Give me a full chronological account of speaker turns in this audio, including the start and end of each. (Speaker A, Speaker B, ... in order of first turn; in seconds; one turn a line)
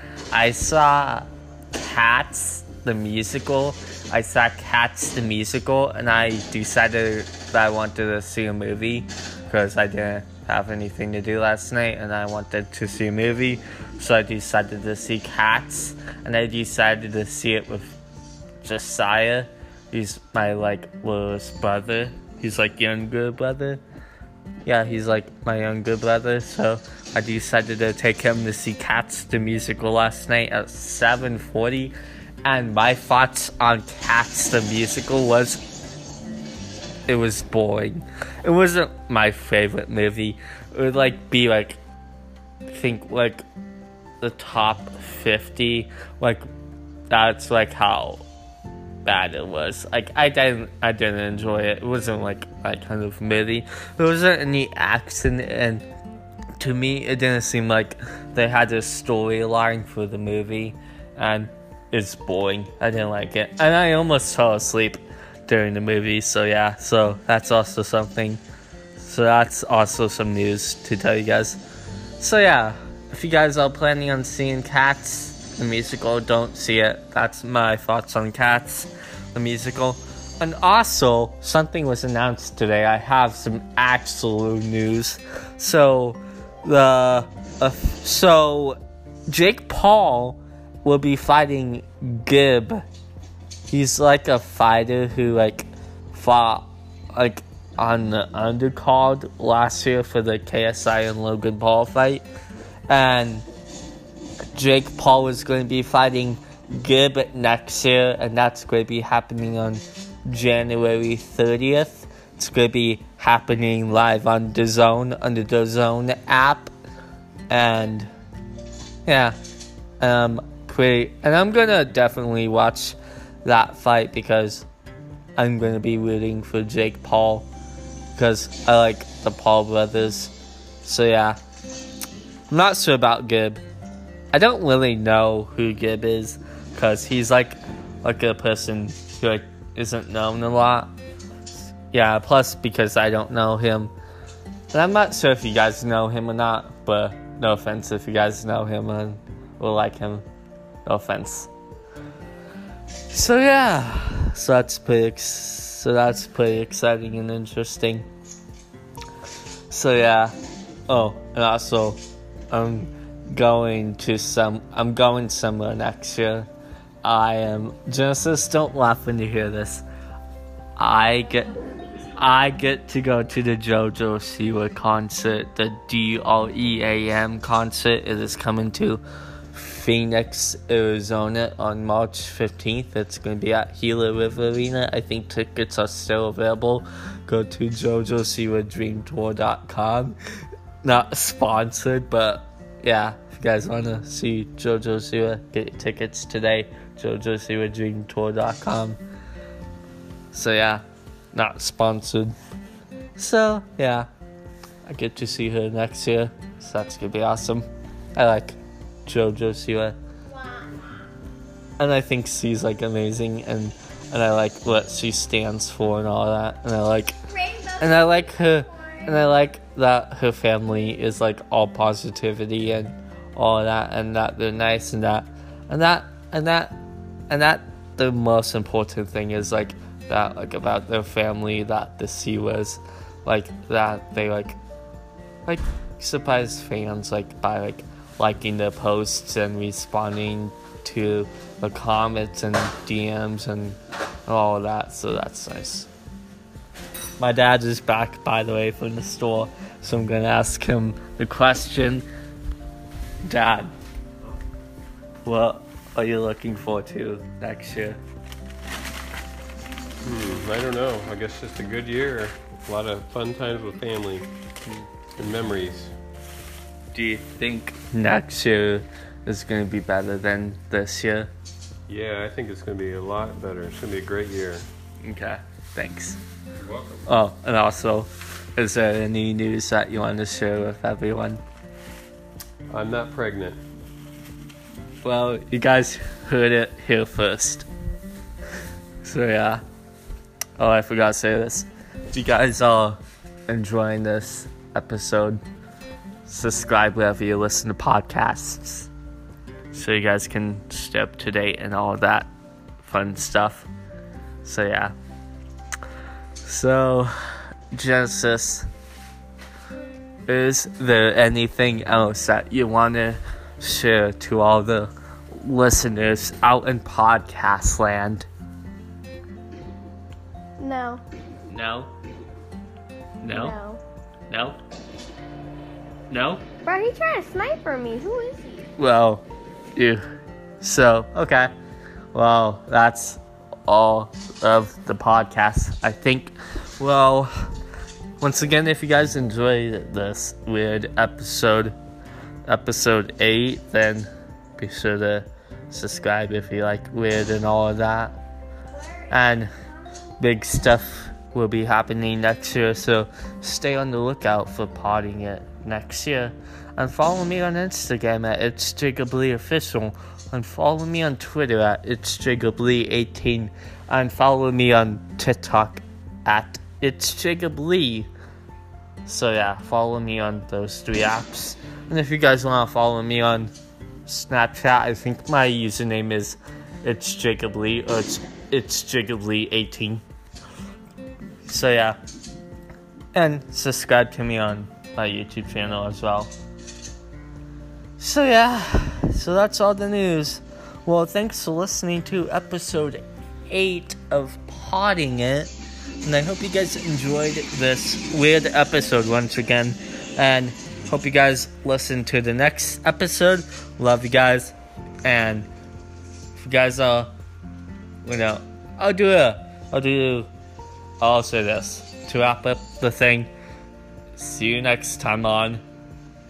Speaker A: 0.3-18.0
Speaker A: 18.6-23.8
Speaker A: 24.6-31.9
Speaker A: 32.4-35.6
Speaker A: 37.1-41.8
Speaker A: 42.7-43.4
Speaker A: 44.2-46.4
Speaker A: 47.1-48.2
Speaker A: 49.0-55.8
Speaker A: 56.6-68.4
Speaker A: 69.0-71.6
Speaker A: 72.2-92.8
Speaker A: 93.7-102.2
Speaker A: 102.9-103.5
Speaker A: 104.5-116.7
Speaker A: 117.5-118.1
Speaker A: 119.0-119.3
Speaker A: 120.0-124.7
Speaker A: 125.4-127.5
Speaker A: 128.2-131.4
Speaker A: 132.5-133.6
Speaker A: 134.3-140.9
Speaker A: 141.9-143.9
Speaker A: 144.7-150.2
Speaker A: 150.8-151.5
Speaker A: 153.1-158.1
Speaker A: 159.7-160.3
Speaker A: 160.9-166.5
Speaker A: 167.0-169.8
Speaker A: 170.8-171.6
Speaker A: 172.2-179.0
Speaker A: 179.5-190.2
Speaker A: 190.8-199.0
Speaker A: 200.3-200.8
Speaker A: 201.3-202.3
Speaker A: 203.2-204.1
Speaker A: 204.8-209.9
Speaker B: 210.3-210.7
Speaker A: 211.8-226.8
Speaker A: 227.3-234.6
Speaker A: 235.4-245.9
Speaker A: 247.2-252.1
Speaker A: 253.2-253.7
Speaker A: 255.2-258.0
Speaker C: 260.0-264.3
Speaker C: 265.2-265.9
Speaker A: 266.9-271.3
Speaker C: 271.9-274.6
Speaker A: 275.0-276.2
Speaker C: 276.6-277.1
Speaker A: 277.1-281.4
Speaker C: 282.7-283.6
Speaker A: 285.0-287.7
Speaker A: 289.0-289.6
Speaker A: 290.6-295.4
Speaker A: 296.2-298.9
Speaker A: 299.7-302.3
Speaker A: 302.8-303.7
Speaker A: 304.4-304.9
Speaker A: 306.4-308.7
Speaker A: 310.3-318.3
Speaker B: 320.6-321.0
Speaker A: 321.5-321.9
Speaker A: 323.2-323.6
Speaker B: 323.3-323.8
Speaker A: 324.3-324.6
Speaker A: 326.1-326.4
Speaker B: 326.6-328.7
Speaker A: 328.8-329.2
Speaker A: 329.7-330.0
Speaker A: 330.6-331.5
Speaker A: 332.1-337.5
Speaker A: 338.2-341.7
Speaker A: 342.4-348.2
Speaker A: 349.1-349.5
Speaker A: 350.2-368.1
Speaker A: 369.1-373.5
Speaker A: 374.1-380.0
Speaker A: 381.5-382.0
Speaker A: 383.1-386.3
Speaker A: 388.0-395.5
Speaker A: 396.0-405.5
Speaker A: 406.3-407.1
Speaker A: 408.0-410.3
Speaker A: 411.0-413.3
Speaker A: 414.2-415.6